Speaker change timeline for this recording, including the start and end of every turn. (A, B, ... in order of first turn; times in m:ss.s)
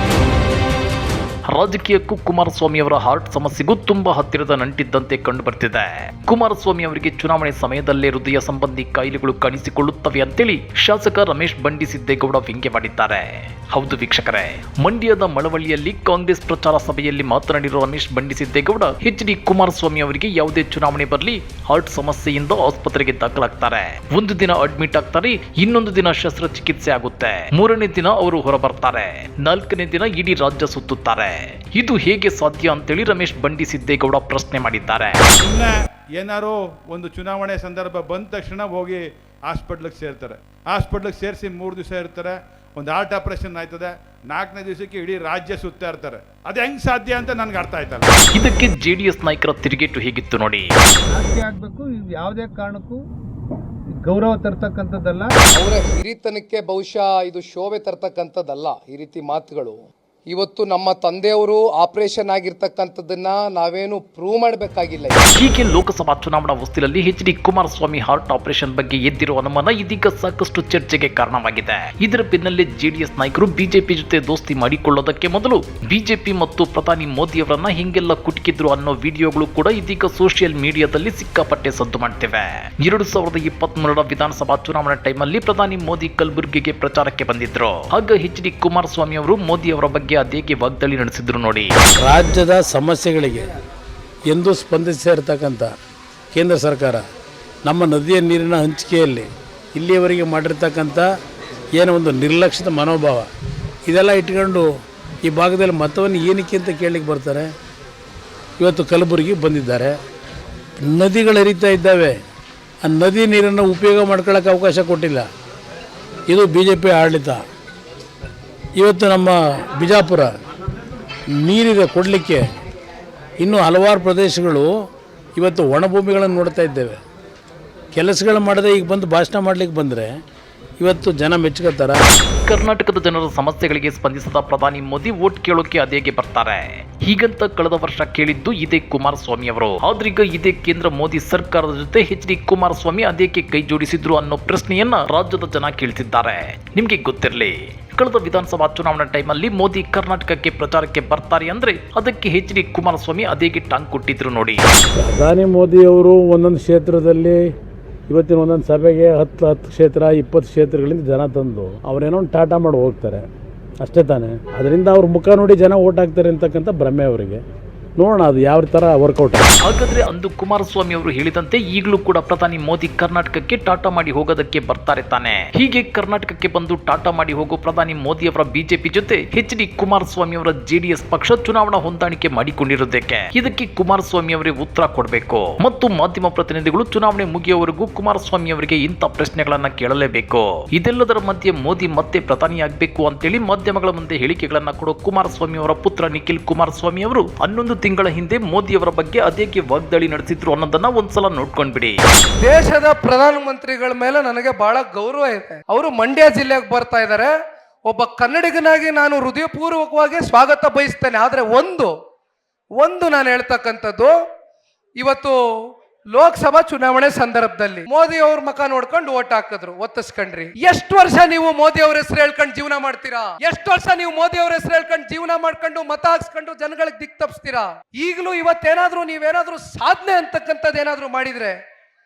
0:01.5-0:35.2 A
0:35.4-0:48.1 B
0:48.4-0:50.7 A
0:51.2-0:53.0 C
0:54.1-0:55.3 C
0:55.6-0:59.8 D
1:00.3-1:05.2 D
1:05.4-1:31.7 A
1:32.0-1:33.5 E
1:34.3-1:35.7 E
1:36.4-1:37.0 E
1:37.7-1:41.1 E
1:41.8-1:43.3 E
1:43.9-1:44.7 E
1:45.2-1:47.5 E
1:48.6-1:49.9 E
1:50.8-1:52.2 E
1:52.8-1:55.3 E
1:56.3-1:57.4 E
1:58.8-2:00.3 E
2:01.4-2:02.4 E
2:03.4-2:04.7 E
2:05.4-2:07.0 E
2:08.0-2:10.1 E
2:10.8-2:12.0 E
2:12.5-2:34.6 A
2:35.0-2:37.4 E
2:38.1-2:43.2 E
2:43.8-2:47.4 E
2:48.0-2:49.5 E
2:49.6-3:22.0 A
3:22.4-3:27.3 D
3:27.9-3:31.9 D
3:32.8-3:34.2 D
3:35.0-3:35.4 D
3:36.2-3:51.6 D